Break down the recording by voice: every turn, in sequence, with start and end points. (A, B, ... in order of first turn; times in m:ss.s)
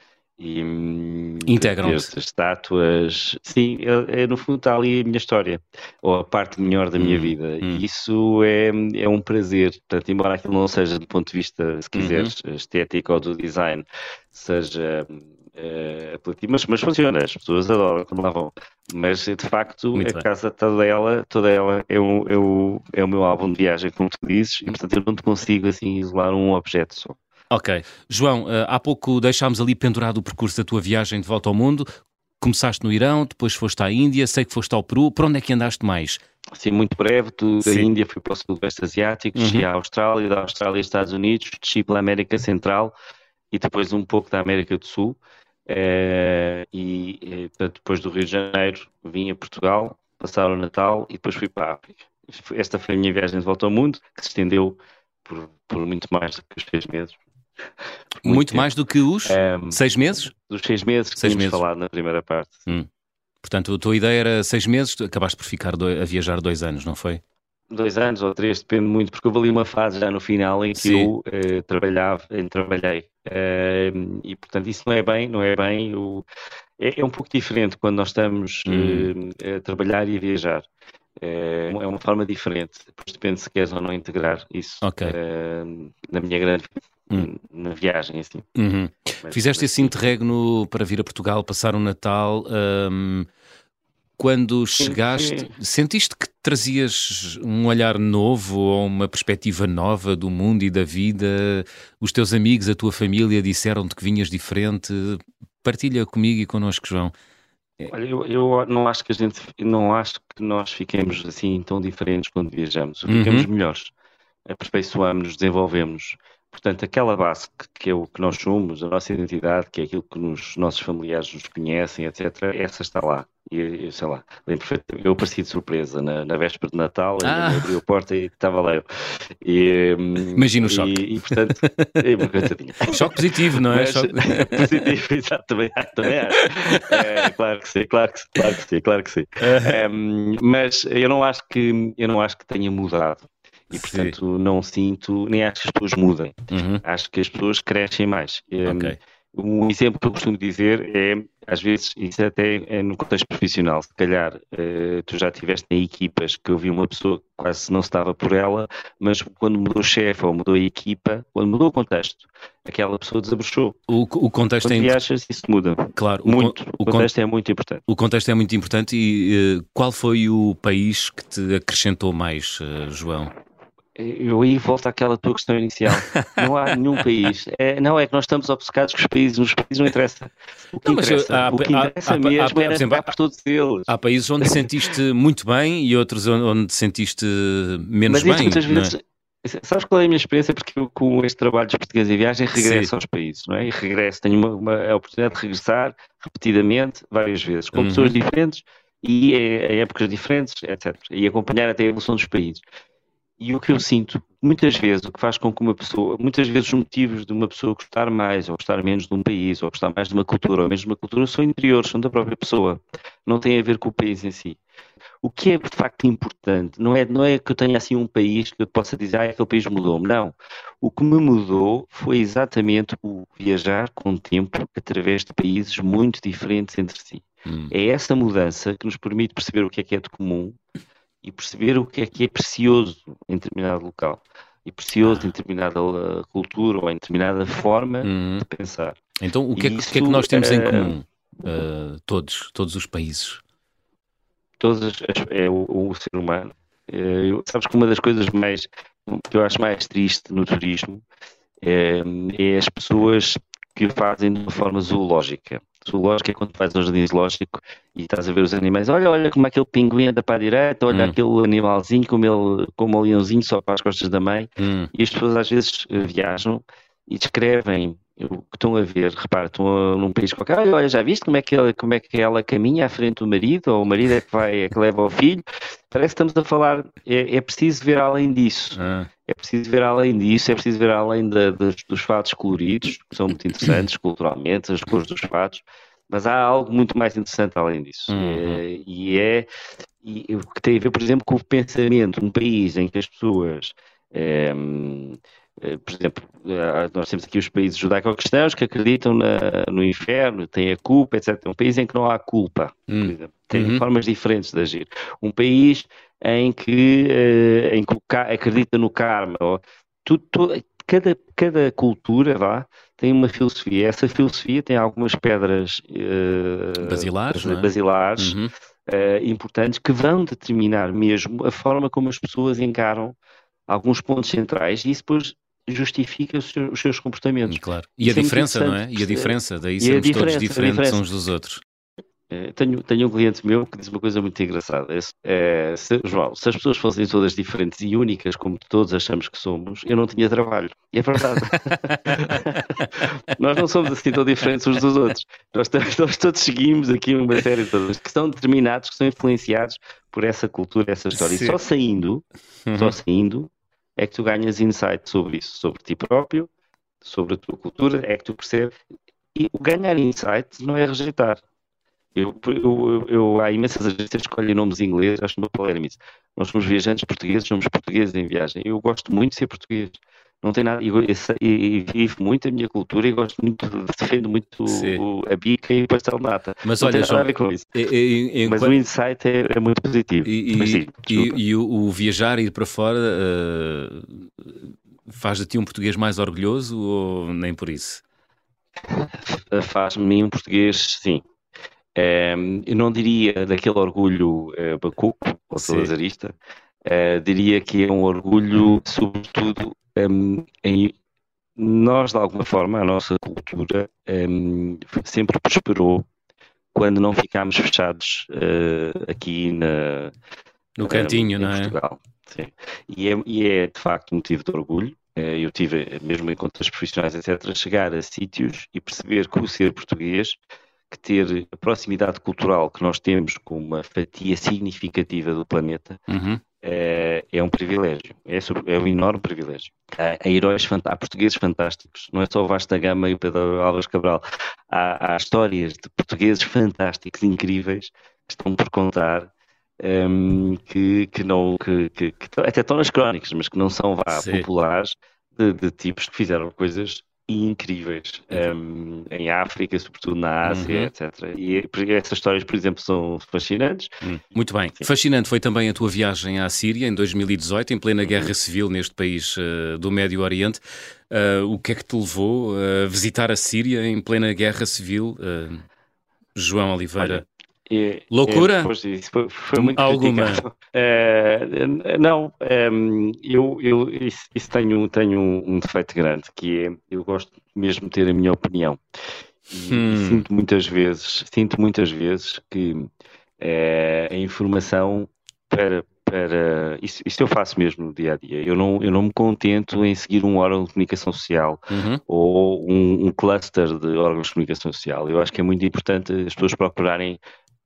0:00.4-0:27.2 A
0:01.4-0:02.1 B
0:07.0-0:07.8 B
0:11.9-0:12.3 B
0:19.9-0:20.2 B
0:27.5-0:36.2 B
0:36.6-0:42.9 A
0:37.6-0:37.9 B
0:39.3-0:39.6 B
0:43.5-0:57.2 A
0:58.2-0:58.7 A
0:58.2-1:00.3 B
0:59.2-1:02.7 A
1:01.2-1:01.6 B
1:03.4-1:07.2 B
1:07.7-1:16.2 A
1:10.8-1:11.1 B
1:16.8-1:20.7 A
1:18.7-1:19.1 B
1:21.2-1:28.5 A
1:24.8-1:25.2 B
1:28.5-1:33.3 B
1:29.2-1:30.0 A
1:34.2-1:47.1 B
1:34.8-1:35.5 A
1:47.8-1:53.9 A
1:53.1-1:53.5 B
1:54.4-2:43.8 A
2:07.2-2:07.8 B
2:10.3-2:11.9 B
2:12.9-2:14.8 B
2:16.4-2:17.0 B
2:19.4-2:19.8 B
2:23.7-2:24.1 B
2:26.5-2:26.8 B
2:28.6-2:29.0 B
2:43.9-2:45.0 B
2:44.6-2:47.8 A
2:46.0-2:47.1 B
2:47.9-2:53.3 B
2:54.0-3:03.9 A
2:56.1-2:56.4 B
3:00.8-3:03.1 B
3:03.9-3:08.9 B
3:04.4-3:04.7 A
3:08.1-3:22.6 A
3:12.5-3:12.9 B
3:17.7-3:18.2 B
3:23.4-3:34.6 A
3:35.2-3:50.6 A
3:47.4-3:47.7 B
3:51.2-3:59.0 A
3:55.0-3:55.3 B
3:58.0-3:58.4 B
3:59.2-4:03.4 B
3:59.5-4:00.9 A
4:04.6-4:11.0 A
4:11.6-4:49.5 A
4:20.9-4:21.1 B
4:24.6-4:24.9 B
4:38.8-4:39.1 B
4:48.1-4:48.6 B
4:50.0-5:23.2 A
5:02.9-5:03.8 B
5:16.8-5:18.5 B
5:23.7-5:31.0 A
5:27.5-5:31.6 B
5:32.3-5:56.5 A
5:41.3-5:42.9 B
5:51.2-5:51.6 B
5:52.7-5:53.0 B
5:57.0-5:58.7 A
5:59.3-6:01.4 A
6:02.1-6:17.7 A
6:14.7-6:15.0 B
6:16.6-6:18.8 B
6:18.4-6:21.4 A
6:20.2-6:28.0 B
6:28.9-6:31.2 A
6:31.9-6:36.3 A
6:35.6-6:35.9 B
6:36.8-6:40.9 A
6:41.6-6:46.0 A
6:46.7-6:50.1 A
6:50.8-6:51.8 B
6:50.8-7:00.4 A
7:00.9-7:06.0 A
7:06.1-7:06.4 B
7:06.6-7:33.9 A
7:24.1-7:24.4 B
7:30.4-7:30.9 B
7:34.0-7:45.6 B
7:46.3-7:47.2 B
7:47.0-7:58.8 A
7:48.1-7:48.7 B
7:49.5-7:50.4 B
7:59.5-8:17.2 A
7:59.6-8:00.2 B
8:11.7-8:12.0 B